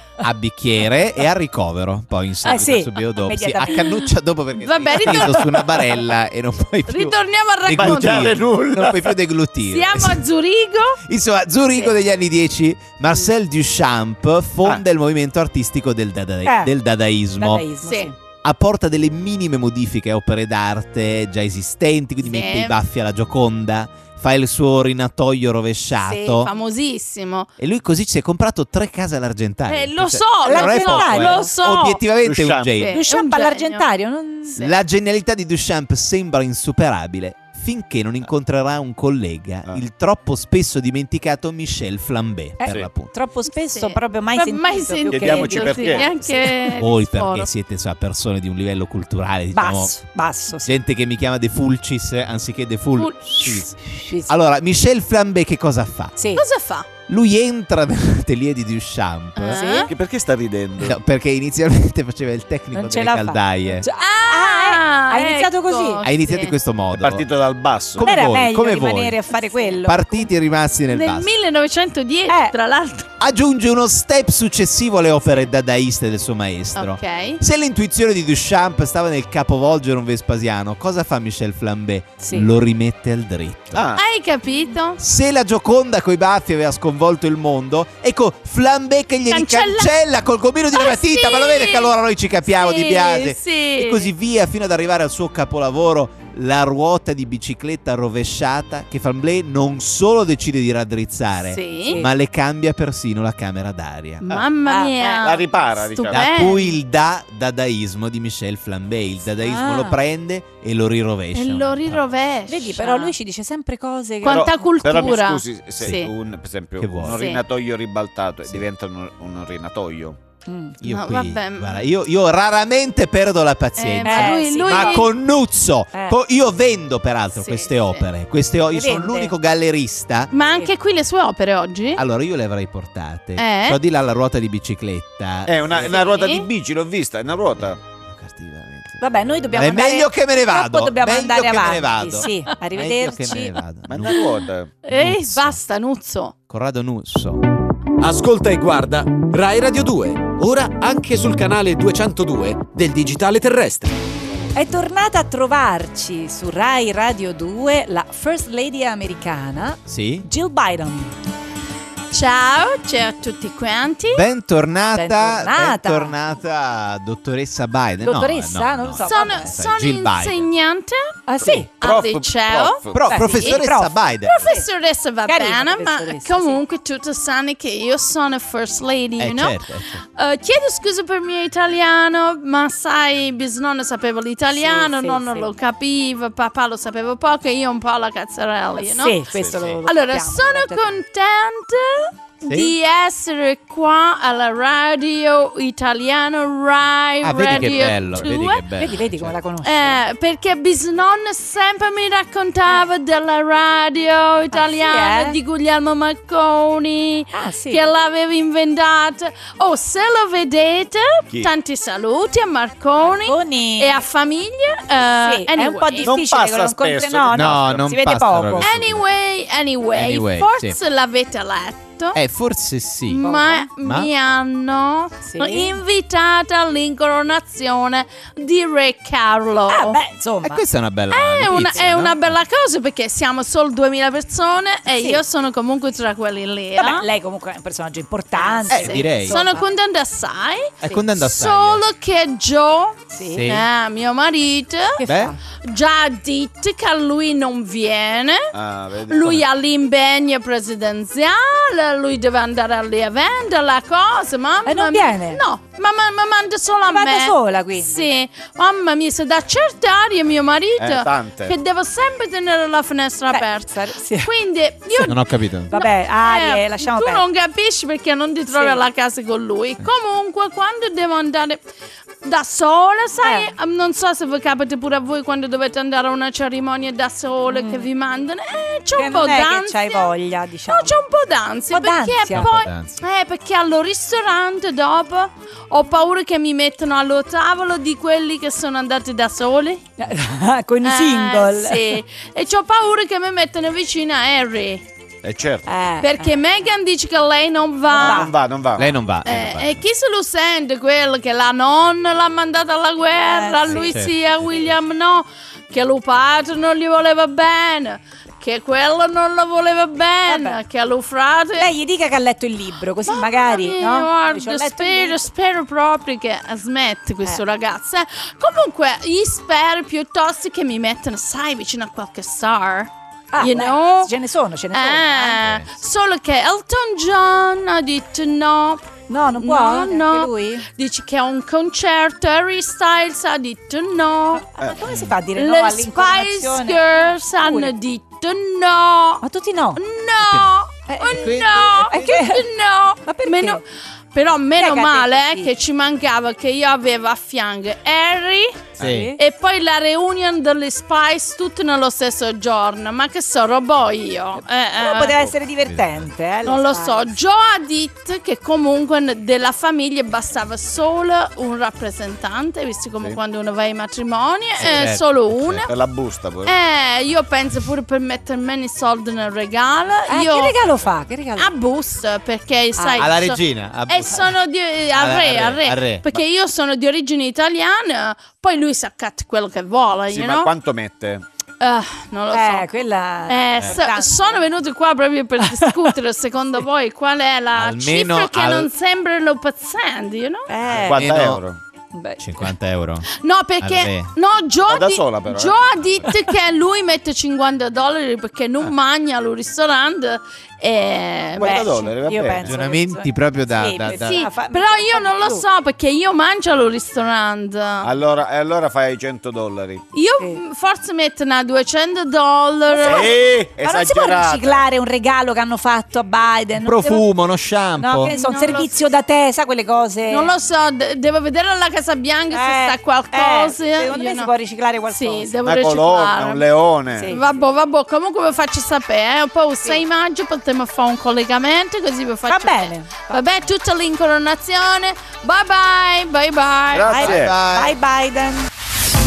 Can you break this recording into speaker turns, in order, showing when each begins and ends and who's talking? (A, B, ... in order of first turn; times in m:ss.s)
0:00.2-0:10.2 A
0:02.4-0:04.1 B
0:04.6-0:05.8 C
0:05.1-0:05.4 D
0:06.9-0:08.4 C
0:07.7-0:09.1 D
0:09.7-0:11.0 C
0:11.0-0:17.6 A
0:16.4-0:16.7 B
0:17.4-0:18.2 B
0:17.8-0:18.1 C
0:18.4-0:26.5 A
0:22.2-0:22.8 C
0:26.0-0:27.5 C
0:27.6-0:33.0 A
0:29.7-0:32.0 C
0:30.4-0:31.5 B
0:32.2-0:32.8 D
0:32.8-0:33.9 C
0:32.9-0:34.6 B
0:34.5-0:34.8 C
0:34.6-0:43.1 A
0:42.6-0:46.8 B
0:43.7-0:47.5 C
0:45.1-0:46.0 D
0:46.7-0:49.9 A
0:49.5-0:50.8 B
0:50.6-0:56.2 A
0:53.0-0:53.6 C
0:53.9-0:54.3 B
0:56.2-0:56.4 B
0:56.4-0:56.9 C
0:57.1-0:59.6 A
0:59.4-0:59.9 C
0:59.5-0:59.9 B
0:59.9-1:01.0 D
1:00.8-1:03.9 A
1:02.7-1:06.0 B
1:03.9-1:06.6 C
1:06.0-1:07.2 A
1:06.9-1:08.2 D
1:07.9-1:09.2 A
1:08.0-1:10.3 B
1:09.8-1:11.3 A
1:10.9-1:13.1 C
1:12.3-1:12.5 B
1:13.2-1:23.8 A
1:16.8-1:17.4 C
1:22.2-1:22.5 B
1:23.7-1:24.0 D
1:24.0-1:25.0 C
1:25.0-1:44.4 A
1:29.3-1:29.9 C
1:30.7-1:31.9 C
1:32.5-1:34.1 C
1:41.5-1:42.0 C
1:44.2-1:46.7 C
1:44.6-1:45.3 B
1:45.2-1:46.3 D
1:46.1-1:52.0 A
1:49.4-1:50.0 B
1:51.3-1:53.1 C
1:52.5-1:54.6 B
1:54.2-1:56.1 C
1:54.2-2:00.2 D
1:56.8-1:57.3 A
1:57.0-1:57.4 C
2:00.5-2:00.8 B
2:00.8-2:10.3 A
2:00.8-2:01.8 C
2:03.8-2:05.1 C
2:04.0-2:05.0 B
2:07.3-2:08.0 C
2:08.7-2:09.3 B
2:10.3-2:12.0 C
2:10.4-2:10.7 B
2:12.0-2:15.9 A
2:13.4-2:13.8 C
2:15.4-2:17.8 D
2:15.7-2:16.5 C
2:17.6-2:24.2 A
2:19.0-2:23.6 B
2:23.9-2:24.7 D
2:24.8-2:26.3 C
2:24.9-2:25.6 A
2:26.5-2:27.4 A
2:28.0-2:33.9 E
2:34.5-2:41.1 B
2:39.8-2:40.3 A
2:42.1-2:44.2 C
2:44.1-2:50.5 A
2:44.9-2:46.2 B
2:48.0-2:49.6 B
2:49.0-2:53.6 C
2:51.3-2:51.7 B
2:51.4-2:53.1 D
2:52.9-2:54.5 A
2:53.0-2:54.6 B
2:54.2-2:59.6 C
2:55.3-2:56.6 B
2:59.2-3:00.0 A
3:00.2-3:09.2 C
3:04.5-3:05.5 B
3:08.8-3:10.9 B
3:09.3-3:09.7 D
3:09.5-3:09.8 A
3:09.8-3:18.6 C
3:12.4-3:12.7 A
3:17.2-3:19.4 A
3:18.8-3:20.0 B
3:19.6-3:36.2 C
3:24.5-3:25.4 B
3:27.3-3:27.9 B
3:33.2-3:34.0 B
3:35.1-3:38.7 B
3:36.0-3:37.8 D
3:37.3-3:39.0 A
3:38.6-3:42.2 C
3:39.9-3:40.8 A
3:42.1-3:43.2 A
3:43.1-3:50.0 C
3:43.2-3:43.7 B
3:43.8-3:44.1 A
3:45.2-3:45.8 B
3:49.7-3:50.6 B
3:50.4-3:52.3 A
3:51.1-3:57.1 C
3:54.9-3:55.2 B
3:56.8-3:59.7 B
3:58.4-4:05.0 C
3:58.7-3:59.4 A
4:00.8-4:01.8 A
4:03.1-4:03.5 B
4:03.3-4:03.7 A
4:05.0-4:05.4 B
4:05.0-4:05.3 A
4:05.6-4:08.5 C
4:08.5-4:09.4 D
4:09.1-4:31.6 C
4:14.6-4:15.4 B
4:16.8-4:18.1 B
4:20.8-4:21.5 D
4:23.3-4:24.3 B
4:25.0-4:25.7 A
4:25.7-4:27.2 B
4:28.5-4:28.8 B
4:32.2-4:40.1 C
4:33.2-4:33.5 B
4:37.5-4:37.9 B
4:39.0-4:41.0 B
4:40.7-4:49.8 C
4:41.7-4:42.5 B
4:42.3-4:43.0 A
4:50.0-4:52.0 B
4:50.8-4:54.8 C
4:55.2-4:55.6 D
4:55.6-4:56.3 B
4:56.0-4:58.3 C
4:57.9-4:58.3 B
4:57.9-4:59.0 D
4:58.8-4:59.8 A
4:59.2-5:11.7 C
5:03.2-5:04.0 B
5:03.7-5:04.1 A
5:10.2-5:10.6 B
5:11.6-5:15.3 B
5:13.1-5:24.1 C
5:23.3-5:25.4 B
5:24.7-5:34.4 C
5:25.4-5:25.7 A
5:29.1-5:30.6 B
5:34.3-5:37.7 B
5:35.4-5:39.2 C
5:39.2-5:39.8 B
5:39.8-5:43.6 C
5:40.2-5:40.5 A
5:40.9-5:42.5 B
5:41.1-5:42.2 A
5:43.0-5:43.6 B
5:44.1-5:55.3 C
5:44.6-5:45.5 B
5:48.8-5:49.1 A
5:48.8-5:49.2 B
5:54.4-5:57.1 B
5:55.6-5:56.1 A
5:56.4-6:05.7 C
6:04.6-6:05.7 A
6:05.6-6:06.5 D
6:06.4-6:10.6 C
6:10.1-6:11.5 B
6:11.4-6:20.5 C
6:12.8-6:13.1 B
6:13.0-6:14.3 A
6:14.9-6:16.0 A
6:20.1-6:21.2 D
6:21.6-6:22.7 C
6:22.3-6:24.4 B
6:23.3-6:30.5 C
6:25.4-6:25.9 B
6:27.5-6:28.7 A
6:30.5-6:31.0 B
6:30.7-6:31.6 D
6:30.7-6:31.4 A
6:31.9-6:32.2 B
6:32.2-6:33.1 A
6:33.1-6:41.9 C
6:33.6-6:34.1 A
6:34.7-6:35.6 D
6:41.4-6:42.5 D
6:41.4-6:45.4 B
6:42.4-6:44.2 A
6:43.8-6:47.9 C
6:47.8-6:49.8 D
6:49.9-6:53.1 C
6:52.7-6:57.0 B
6:52.8-6:54.6 D
6:56.6-6:58.1 A
6:57.8-7:00.3 B
6:58.1-6:58.8 C
7:00.1-7:04.3 C
7:02.3-7:05.4 B
7:04.9-7:06.4 C
7:05.4-7:07.2 D
7:06.9-7:07.3 B
7:07.0-7:17.1 C
7:12.2-7:13.2 B
7:16.7-7:17.4 D
7:16.9-7:18.5 B
7:17.0-7:17.7 A